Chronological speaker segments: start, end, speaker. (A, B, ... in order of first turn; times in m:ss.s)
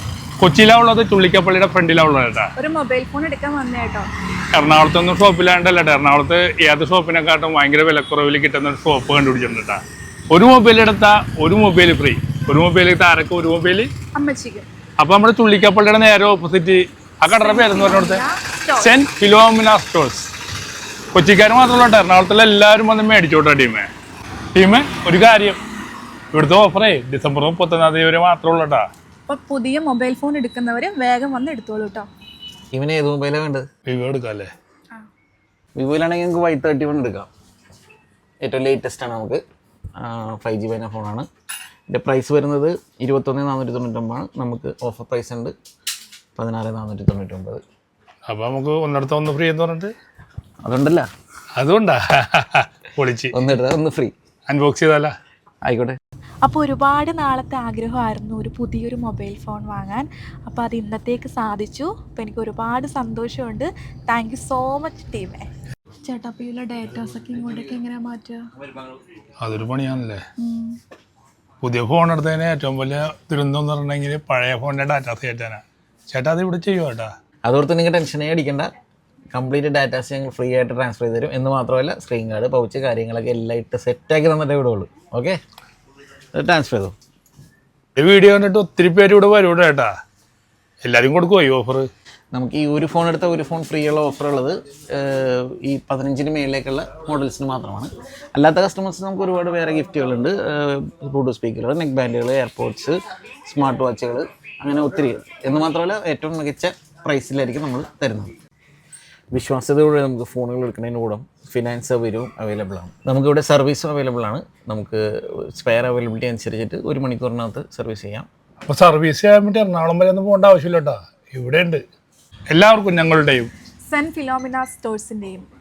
0:00.4-0:02.5 A
0:02.6-0:04.1 B
0:04.5-0:13.9 A
0:14.1-0:14.7 B
0:15.0-0:18.2 A
0:17.2-0:18.9 B
0:18.8-0:20.3 A
0:21.1-0:23.9 A
0:24.5-0:25.6 A
0:26.3-0:28.8 A
0:29.3-0:32.1 B
0:32.7-0:33.6 C
0:33.9-0:34.5 A
0:35.8-0:37.3 C
0:38.4-0:39.4 C
0:40.0-0:41.3 C
0:41.9-0:45.5 C
0:46.4-0:47.6 C
0:48.3-0:49.9 A
0:50.6-0:51.1 C
0:51.6-0:53.4 A
0:53.3-0:54.1 C
0:54.5-0:55.1 A
0:55.6-0:56.0 C
0:56.4-1:05.5 B
1:06.0-1:08.5 B
1:09.4-1:10.2 A
1:10.4-1:10.8 B
1:11.6-1:17.1 A
1:17.4-1:18.7 C
1:19.3-1:25.4 C
1:26.3-1:26.9 C
1:28.0-1:29.9 A
1:30.8-1:31.9 A
1:32.3-1:48.3 C
1:49.3-1:58.3 C
1:58.6-2:01.8 A
2:02.5-2:03.5 A
2:03.9-2:05.5 B